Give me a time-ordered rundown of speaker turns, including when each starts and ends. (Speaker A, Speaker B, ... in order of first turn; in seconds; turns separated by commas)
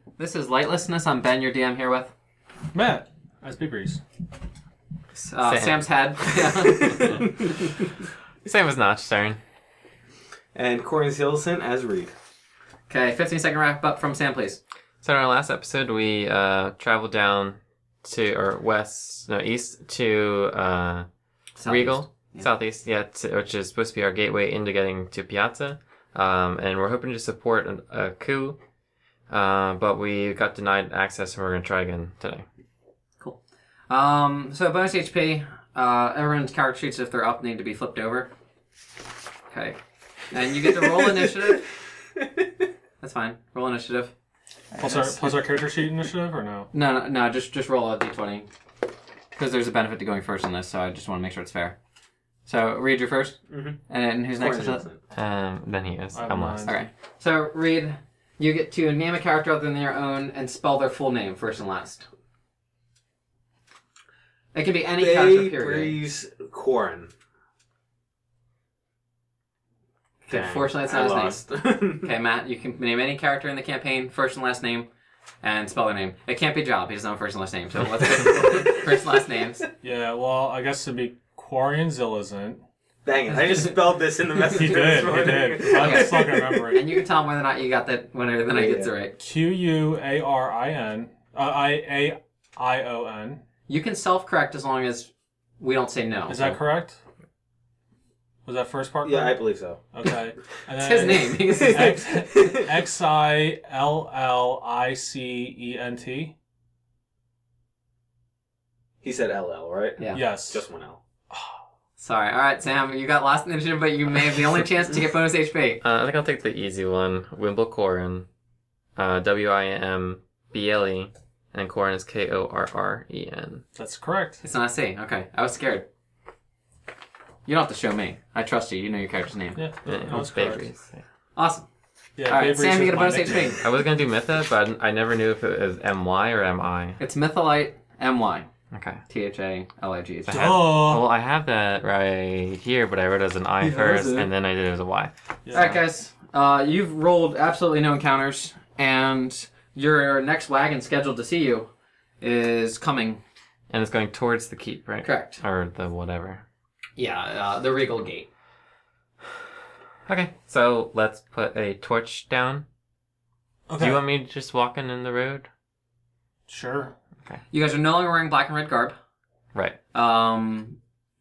Speaker A: 0.2-2.1, Speaker B: 2.7-4.0, Speaker A: 5.1-7.2, Speaker C: 5.4-5.8, Speaker D: 6.8-7.7, Speaker C: 8.4-9.4, Speaker D: 10.5-12.1, Speaker A: 12.9-14.6, Speaker C: 15.0-21.1, Speaker A: 21.6-22.5, Speaker C: 21.6-28.6, Speaker C: 29.3-32.4, Speaker A: 33.2-38.3, Speaker A: 39.5-39.8, Speaker A: 40.3-41.6, Speaker D: 40.7-41.6, Speaker A: 43.0-44.1, Speaker A: 44.7-45.5, Speaker B: 44.8-46.7, Speaker A: 46.7-48.5, Speaker A: 49.3-51.8, Speaker A: 52.5-54.9, Speaker D: 53.5-53.8, Speaker D: 54.3-55.0, Speaker C: 55.1-56.7, Speaker B: 56.1-56.8, Speaker A: 56.6-62.0, Speaker A: 64.5-66.0, Speaker D: 65.0-67.1, Speaker A: 70.2-74.9, Speaker D: 70.3-72.1, Speaker A: 75.4-79.6, Speaker B: 79.8-82.6, Speaker D: 83.0-86.8, Speaker B: 84.4-86.8, Speaker A: 85.7-89.2, Speaker D: 88.5-88.9, Speaker B: 89.2-93.4, Speaker A: 93.7-96.6, Speaker B: 96.3-97.0, Speaker B: 98.5-99.4, Speaker D: 99.0-99.8, Speaker B: 99.9-106.3, Speaker A: 100.8-102.0, Speaker D: 101.3-102.7, Speaker D: 109.0-111.0, Speaker A: 110.0-110.2, Speaker B: 110.1-110.7, Speaker A: 112.0-115.8, Speaker C: 115.8-118.2, Speaker C: 119.0-123.6, Speaker B: 123.7-124.4, Speaker A: 124.4-125.9, Speaker A: 127.5-129.6, Speaker B: 129.6-130.7, Speaker C: 129.8-131.0, Speaker A: 131.3-131.7, Speaker B: 132.2-133.6, Speaker A: 132.2-133.6, Speaker C: 133.6-137.0, Speaker A: 137.0-138.5, Speaker C: 138.7-139.0, Speaker A: 139.1-140.6, Speaker B: 140.3-141.1, Speaker C: 140.3-145.1, Speaker A: 143.6-144.3, Speaker B: 145.4-145.8, Speaker A: 145.5-151.7, Speaker A: 152.2-153.2, Speaker C: 153.7-156.4, Speaker A: 155.0-155.4, Speaker A: 157.0-158.3, Speaker C: 160.1-162.6, Speaker B: 163.7-164.0, Speaker C: 163.8-165.5, Speaker B: 166.5-166.9, Speaker A: 167.5-168.9, Speaker A: 169.9-170.8